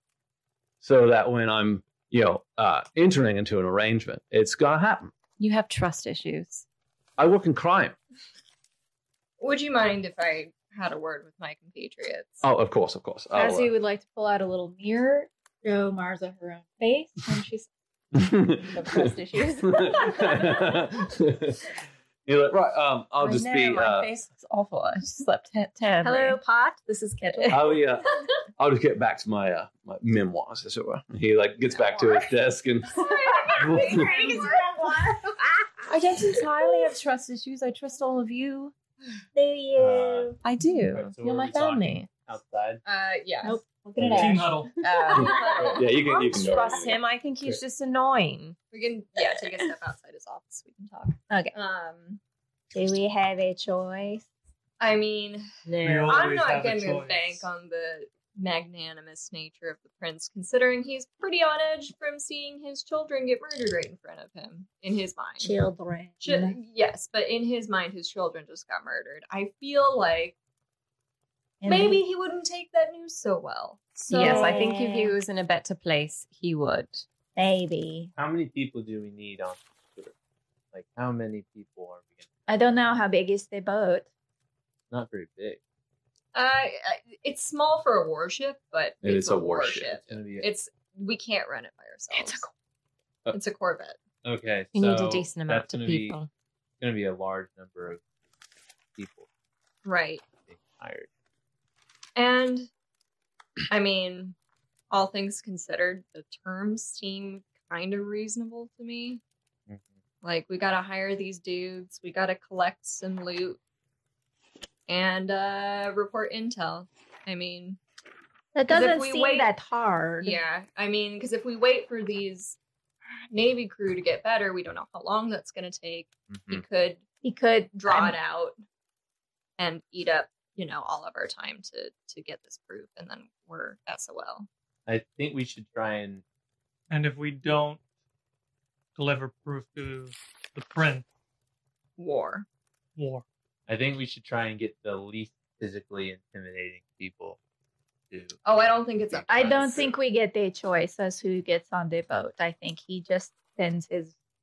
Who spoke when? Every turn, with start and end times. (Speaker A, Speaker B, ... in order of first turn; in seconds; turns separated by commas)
Speaker A: 0.8-5.1, Speaker B: 5.4-6.7, Speaker A: 7.2-8.0, Speaker C: 9.4-12.4, Speaker A: 12.4-13.7, Speaker D: 13.3-17.7, Speaker A: 18.1-19.1, Speaker D: 18.7-20.8, Speaker A: 19.6-21.6, Speaker A: 22.3-24.1, Speaker B: 23.2-26.4, Speaker D: 26.0-27.8, Speaker A: 27.5-33.0, Speaker C: 32.9-34.8, Speaker D: 33.1-35.6, Speaker A: 33.6-34.1, Speaker B: 35.9-38.7, Speaker D: 39.4-40.4, Speaker E: 39.8-42.8, Speaker B: 40.4-42.1, Speaker C: 42.9-43.6, Speaker D: 43.4-45.7, Speaker A: 44.0-44.3, Speaker F: 44.1-44.7, Speaker B: 44.8-48.6, Speaker C: 44.9-45.8, Speaker A: 45.7-47.6, Speaker C: 48.7-52.2, Speaker D: 52.7-54.3, Speaker C: 54.8-55.5, Speaker D: 55.7-56.2, Speaker F: 55.8-57.5, Speaker C: 56.0-65.5, Speaker D: 65.4-66.5, Speaker C: 66.2-70.4, Speaker D: 71.6-72.0, Speaker C: 71.7-74.7, Speaker B: 74.1-77.0, Speaker D: 74.1-75.2, Speaker D: 77.4-78.1, Speaker E: 78.2-80.1, Speaker E: 80.7-83.0, Speaker D: 82.5-84.1, Speaker E: 84.9-85.6, Speaker C: 86.3-92.5, Speaker A: 89.0-90.0, Speaker E: 90.0-90.5, Speaker D: 92.2-92.5, Speaker C: 93.3-94.0, Speaker E: 94.2-96.2, Speaker B: 94.7-96.3, Speaker E: 96.8-98.0, Speaker E: 99.0-99.3, Speaker C: 99.8-100.2, Speaker E: 100.5-101.1, Speaker C: 102.2-102.7, Speaker C: 103.7-104.4, Speaker C: 104.9-109.2, Speaker C: 110.2-113.6, Speaker C: 114.9-117.8, Speaker D: 118.5-120.4, Speaker C: 118.7-119.5, Speaker C: 120.2-122.6, Speaker C: 123.3-127.0, Speaker E: 126.3-126.6, Speaker D: 127.2-128.2, Speaker C: 127.8-128.6, Speaker C: 129.6-134.5, Speaker E: 134.9-136.2, Speaker F: 136.9-137.8, Speaker F: 139.0-141.1, Speaker C: 142.0-142.5, Speaker F: 143.0-143.2, Speaker E: 143.7-147.4, Speaker E: 148.1-148.4, Speaker C: 148.4-149.9, Speaker D: 149.3-154.1